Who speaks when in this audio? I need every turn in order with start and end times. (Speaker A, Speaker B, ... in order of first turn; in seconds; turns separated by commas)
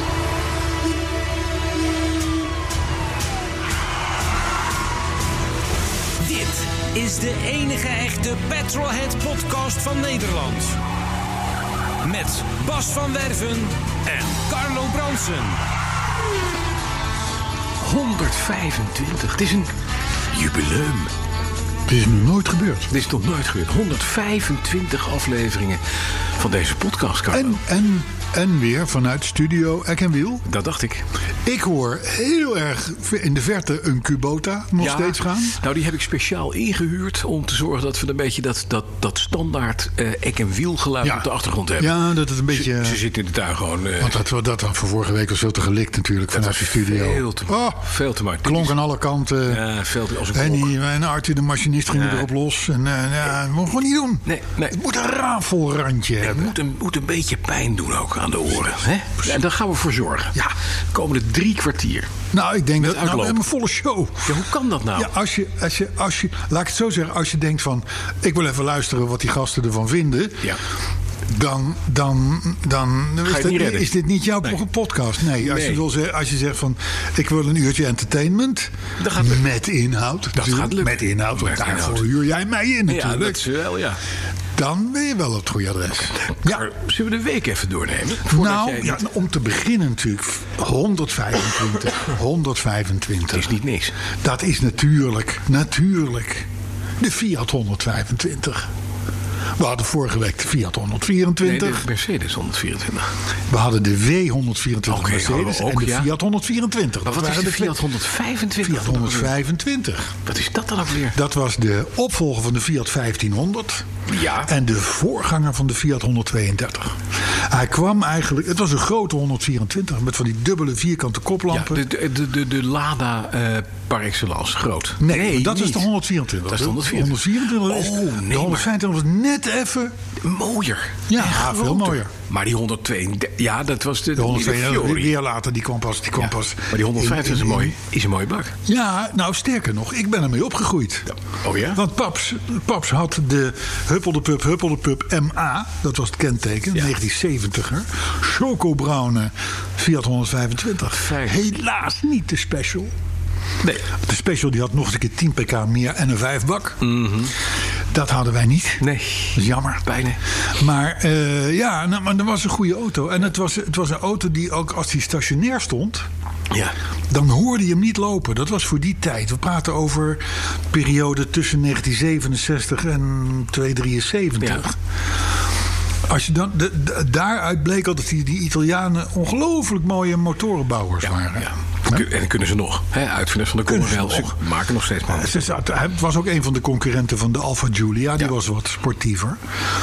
Speaker A: 6.2-10.8, Speaker A: 12.0-15.6, Speaker B: 17.8-19.7, Speaker B: 20.3-21.1, Speaker C: 21.9-22.9, Speaker B: 22.9-25.8, Speaker B: 26.4-27.6, Speaker C: 27.3-30.4, Speaker B: 30.5-31.1, Speaker C: 31.4-35.6, Speaker B: 34.8-42.0, Speaker C: 41.8-43.0, Speaker B: 42.5-44.2, Speaker C: 44.0-47.9, Speaker B: 46.3-48.8, Speaker C: 48.4-49.6, Speaker B: 49.5-50.7, Speaker C: 50.3-56.5, Speaker B: 51.9-52.3, Speaker B: 54.3-54.8, Speaker B: 56.2-60.4, Speaker B: 60.9-62.1, Speaker C: 62.3-70.6, Speaker B: 62.8-63.4, Speaker B: 64.2-65.1, Speaker C: 71.3-83.4, Speaker B: 73.2-73.9, Speaker B: 75.4-75.8, Speaker B: 79.0-79.5, Speaker B: 80.4-82.0, Speaker B: 82.9-84.0, Speaker C: 84.6-86.7, Speaker B: 86.4-89.0, Speaker C: 88.3-93.5, Speaker B: 93.3-93.9, Speaker C: 94.2-96.5, Speaker C: 97.0-98.7, Speaker C: 99.6-101.8, Speaker B: 101.4-103.1, Speaker C: 103.5-107.8, Speaker B: 104.9-106.1, Speaker B: 107.0-109.3, Speaker C: 108.6-110.2, Speaker B: 110.3-111.2, Speaker C: 111.1-113.9, Speaker B: 114.1-114.5, Speaker C: 114.4-121.8, Speaker B: 121.5-125.9, Speaker C: 125.0-129.9, Speaker B: 126.5-128.7, Speaker B: 130.2-135.1, Speaker C: 131.1-132.1, Speaker C: 134.2-137.8, Speaker B: 136.2-138.6, Speaker C: 138.7-141.1, Speaker B: 141.4-141.8, Speaker C: 141.7-152.9, Speaker B: 150.9-151.4, Speaker C: 153.9-156.9, Speaker B: 156.8-157.3, Speaker C: 157.9-159.9, Speaker B: 158.8-160.2, Speaker C: 160.5-166.1, Speaker C: 167.1-174.8, Speaker C: 176.1-182.1, Speaker B: 181.4-185.4, Speaker C: 183.7-184.3, Speaker C: 185.1-189.4